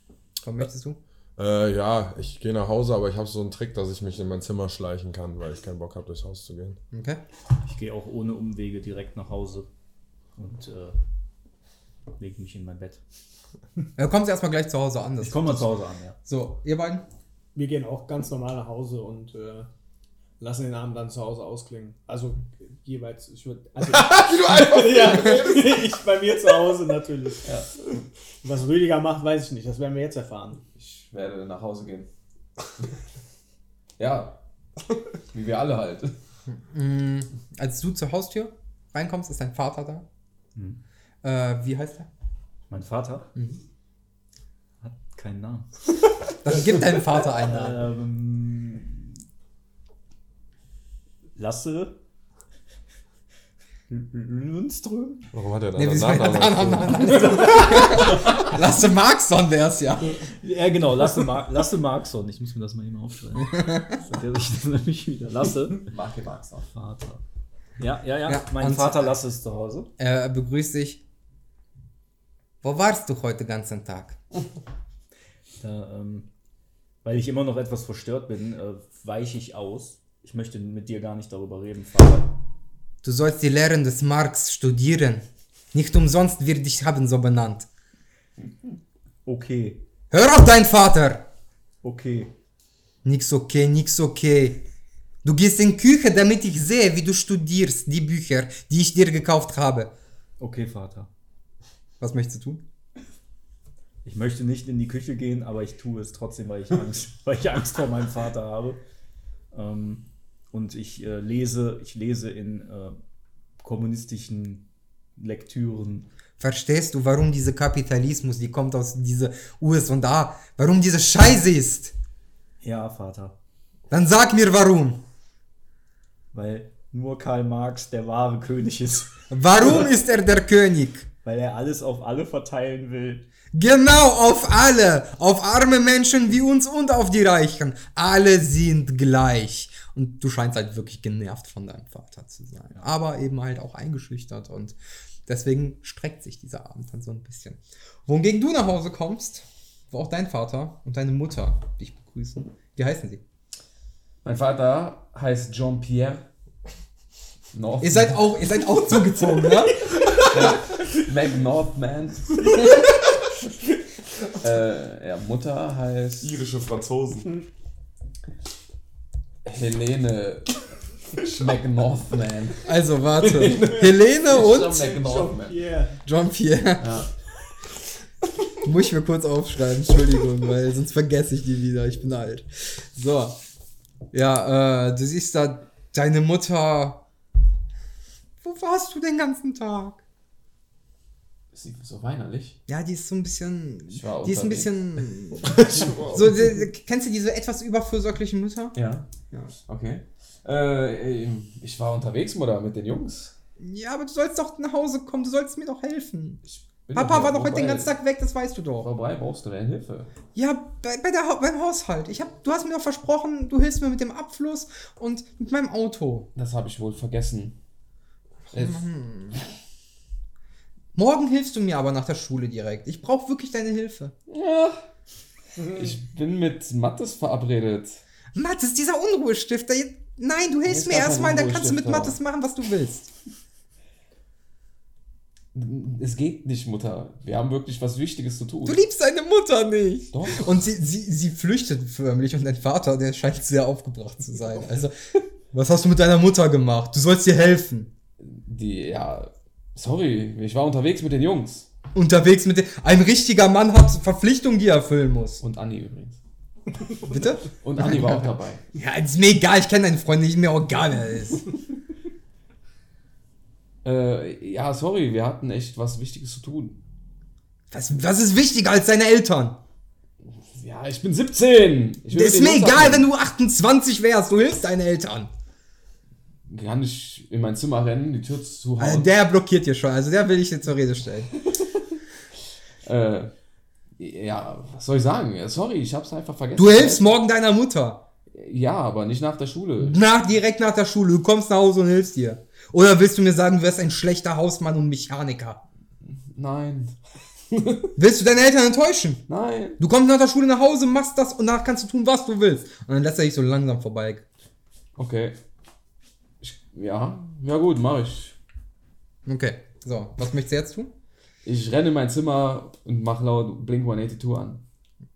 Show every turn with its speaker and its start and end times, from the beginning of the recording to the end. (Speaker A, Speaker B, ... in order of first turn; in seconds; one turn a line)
Speaker A: 0.4-1.0
Speaker B: 1.4-6.8
Speaker A: 6.9-7.2
Speaker C: 7.6-9.7
Speaker C: 10.3-11.0
Speaker C: 12.2-13.0
Speaker A: 13.9-17.1
Speaker C: 15.2-16.2
Speaker D: 17.5-19.7
Speaker D: 20.4-27.5
Speaker E: 23.9-25.7
Speaker E: 27.4-27.7
Speaker D: 28.4-30.6
Speaker E: 30.8-32.1
Speaker E: 34.0-34.4
Speaker E: 35.3-36.1
Speaker A: 36.5-40.0
Speaker A: 41.2-42.1
Speaker C: 42.7-43.3
Speaker C: 44.8-45.7
Speaker A: 46.4-47.8
Speaker C: 47.4-49.2
Speaker C: 51.3-52.0
Speaker C: 53.9-55.3
Speaker B: 55.3-57.2
Speaker A: 55.8-60.2
Speaker C: 57.4-58.4
Speaker C: 60.2-65.9
Speaker A: 63.5-64.0
Speaker E: 65.9-66.7
Speaker C: 66.7-67.2
Speaker C: 67.8-69.9
Speaker A: 68.2-69.2
Speaker A: 70.0-71.0
Speaker A: 72.6-74.2
Speaker C: 75.6-76.3
Speaker C: 77.0-82.3
Speaker A: 83.0-87.7
Speaker C: 89.2-89.8
Speaker A: 90.1-91.2
Speaker C: 91.8-92.3
Speaker A: 93.0-94.6
Speaker A: 95.2-99.9
Speaker C: 100.4-101.1
Speaker A: 102.0-102.6
Speaker C: 104.0-108.8
Speaker C: 109.5-113.0
Speaker C: 113.6-116.1
Speaker A: 116.4-121.9
Speaker C: 122.6-123.3
Speaker A: 123.9-125.0
Speaker C: 126.3-129.9
Speaker A: 129.3-131.1
Speaker C: 131.2-133.3
Speaker A: 133.5-153.2
Speaker E: 154.2-156.3
Speaker E: 157.5-158.3
Speaker A: 157.8-159.9
Speaker E: 160.2-162.6
Speaker E: 164.3-166.3
Speaker B: 166.2-167.3
Speaker E: 169.4-172.7
Speaker A: 172.6-174.9
Speaker E: 173.2-175.6
Speaker D: 174.8-176.0
Speaker A: 176.0-177.0
Speaker E: 176.8-177.1
Speaker A: 178.6-183.3
Speaker A: 184.1-187.0
Speaker A: 188.4-190.0
Speaker E: 191.5-192.6
Speaker A: 192.7-198.8
Speaker E: 193.9-196.2
Speaker B: 195.4-196.4
Speaker E: 198.7-199.1
Speaker E: 199.7-203.3
Speaker A: 203.6-206.4
Speaker E: 206.4-207.9
Speaker A: 206.9-208.9
Speaker E: 208.8-210.1
Speaker A: 210.3-216.3
Speaker E: 216.3-217.6
Speaker E: 218.5-218.9
Speaker A: 218.5-219.4
Speaker A: 220.9-224.1
Speaker E: 224.3-224.8
Speaker E: 225.6-228.0
Speaker A: 228.3-233.1
Speaker E: 230.7-232.2
Speaker E: 235.5-238.8
Speaker A: 238.7-244.9
Speaker E: 240.1-240.5
Speaker A: 245.5-247.9
Speaker E: 248.2-251.7
Speaker A: 251.9-255.4
Speaker E: 255.4-256.2
Speaker A: 257.0-261.4
Speaker E: 257.6-258.6
Speaker E: 263.8-266.8
Speaker A: 267.7-269.6
Speaker E: 270.5-273.1
Speaker A: 272.1-275.3
Speaker E: 276.5-279.1
Speaker A: 278.8-281.3
Speaker E: 282.8-283.3
Speaker E: 284.0-287.1
Speaker A: 286.6-288.0
Speaker E: 288.3-290.0
Speaker A: 289.8-295.6
Speaker E: 296.1-296.9
Speaker E: 297.5-297.9
Speaker A: 297.9-299.2
Speaker E: 299.3-299.8
Speaker A: 299.8-304.2
Speaker E: 304.9-305.4
Speaker E: 306.4-308.4
Speaker A: 309.2-310.9
Speaker E: 311.4-314.6